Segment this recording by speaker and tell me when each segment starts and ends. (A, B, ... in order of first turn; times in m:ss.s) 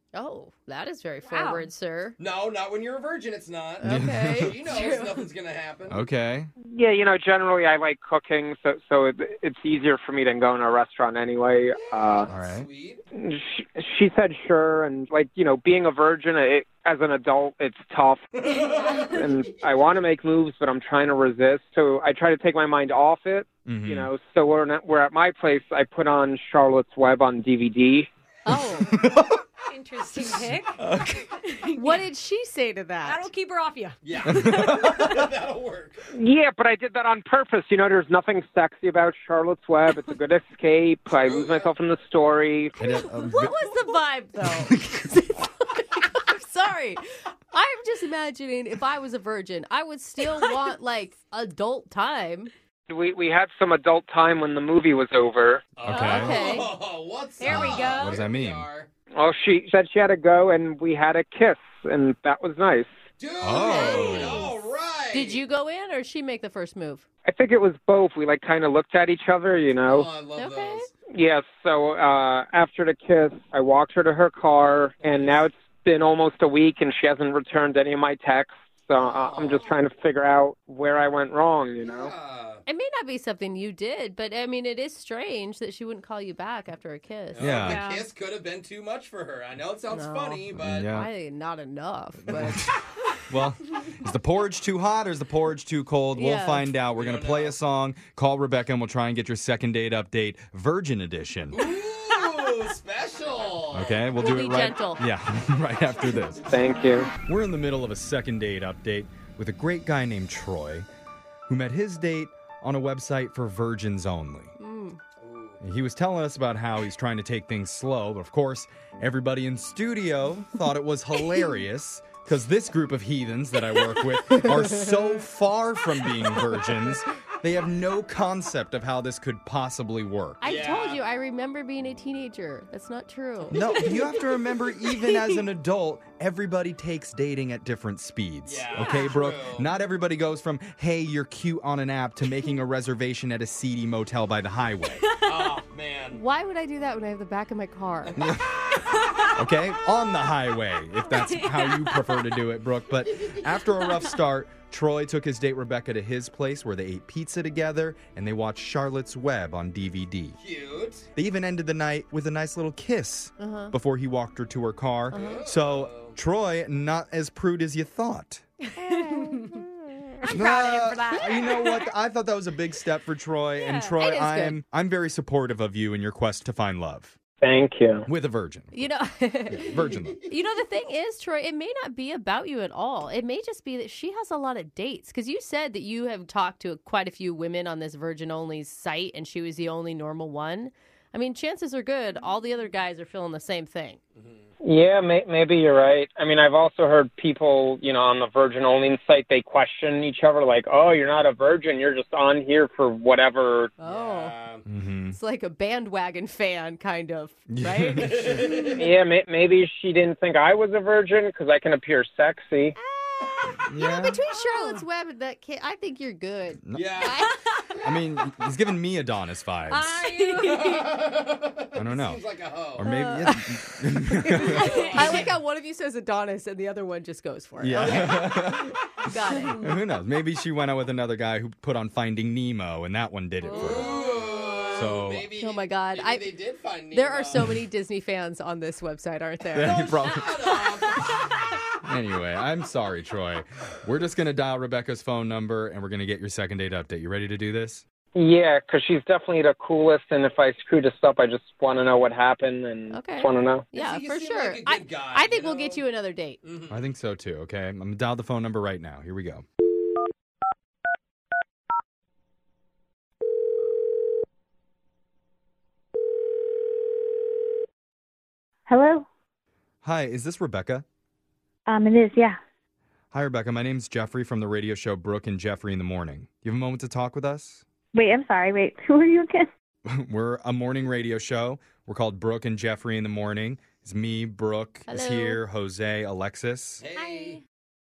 0:00.1-0:02.2 A
0:01.3-0:01.7 B
0:02.2-0:06.0 C
0:03.8-0:04.6 A
0:03.8-0:04.6 D
0:04.8-0:05.1 B
0:05.9-0:06.5 D
0:06.7-0:12.3 E
0:11.7-0:13.0 C
0:12.3-0:12.7 D
0:13.1-0:28.1 E
0:18.4-0:19.5 C
0:23.7-0:24.1 D
0:28.4-0:28.9 A
0:28.9-0:29.4 D
0:29.7-0:30.8 B
0:30.8-0:31.3 D
0:31.4-0:32.0 B
0:31.8-0:33.3 A
0:33.0-0:34.6 B
0:34.0-0:36.0 C
0:34.3-0:35.2 D
0:36.1-0:42.7 E
0:41.1-0:41.7 C
0:42.8-0:43.6 D
0:42.8-0:52.5 A
0:44.4-0:45.0 D
0:52.9-0:55.6 E
0:55.8-0:58.9 C
0:55.9-0:56.4 D
0:55.9-0:56.7 A
0:57.4-0:58.2 B
0:57.4-0:58.7 D
0:59.1-1:02.9 E
1:03.2-1:05.4 C
1:03.4-1:04.5 D
1:03.5-1:04.5 A
1:05.1-1:07.0 A
1:07.3-1:10.1 E
1:09.8-1:10.9 C
1:10.4-1:10.9 A
1:11.1-1:22.1 E
1:15.0-1:15.4 C
1:18.9-1:19.8 C
1:21.8-1:22.6 C
1:22.7-1:27.5 A
1:27.3-1:30.9 C
1:27.4-1:27.8 D
1:27.6-1:28.1 B
1:29.9-1:32.6 A
1:30.6-1:31.1 D
1:32.3-1:41.6 D
1:36.1-1:36.7 A
1:36.9-1:37.6 C
1:41.5-1:44.1 C
1:43.7-1:46.5 D
1:44.2-1:45.0 A
1:46.0-1:47.1 C
1:46.5-1:47.1 E
1:47.2-1:50.9 D
1:51.5-1:54.6 D
1:54.6-1:55.0 A
1:55.2-1:55.6 C
1:55.6-2:10.4 D
2:04.3-2:04.9 A
2:10.4-2:13.6 A
2:10.4-2:11.0 C
2:13.5-2:25.0 D
2:13.9-2:14.2 B
2:18.4-2:19.7 C
2:18.9-2:19.1 A
2:25.2-2:26.2 C
2:26.1-2:28.2 A
2:28.0-2:28.4 C
2:28.2-2:28.5 D
2:29.4-2:40.4 D
2:31.0-2:32.3 B
2:40.4-2:41.1 C
2:41.2-2:48.4 D
2:43.4-2:43.7 A
2:45.1-2:45.4 A
2:45.1-2:46.2 C
2:48.8-2:49.6 B
2:48.9-2:49.6 A
2:50.2-2:51.9 B
2:50.3-2:57.1 D
2:53.6-2:54.0 B
2:54.0-2:54.6 A
2:57.4-2:58.1 E
2:58.1-2:58.7 D
2:58.7-2:59.8 A
2:59.5-3:00.2 D
2:59.8-3:00.2 C
3:00.3-3:14.0 A
3:14.2-3:14.4 C
3:14.6-3:23.7 E
3:23.8-3:24.4 A
3:23.8-3:24.7 C
3:24.7-3:25.2 D
3:25.1-3:28.4 A
3:27.5-3:28.5 D
3:28.0-3:28.9 C
3:28.8-3:32.8 E
3:32.8-3:37.3 A
3:33.6-3:34.2 D
3:34.5-3:34.8 B
3:36.7-3:37.0 D
3:36.7-3:37.2 C
3:37.8-3:39.9 D
3:39.9-3:42.9 C
3:40.0-3:40.8 B
3:41.8-3:45.3 D
3:42.8-3:48.4 A
3:44.4-3:45.4 C
3:47.6-3:48.7 D
3:49.0-3:49.6 A
3:49.6-3:54.0 D
3:53.5-3:54.8 B
3:53.5-3:57.6 C
3:54.7-3:55.3 D
3:55.4-3:56.3 A
3:56.9-3:59.8 A
3:59.6-4:00.6 D
3:59.6-4:01.2 C
4:01.8-4:07.8 D
4:08.2-4:13.7 E
4:12.9-4:16.4 A
4:13.7-4:15.8 C
4:16.4-4:16.8 C
4:16.7-4:19.4 D
4:28.7-4:29.0 F
4:29.8-4:30.8 D
4:31.7-4:32.4 F
4:33.1-4:37.6 D
4:37.9-4:39.5 F
4:39.9-4:46.8 D
4:44.9-4:45.4 A
4:46.8-4:47.4 C
4:47.0-4:47.4 B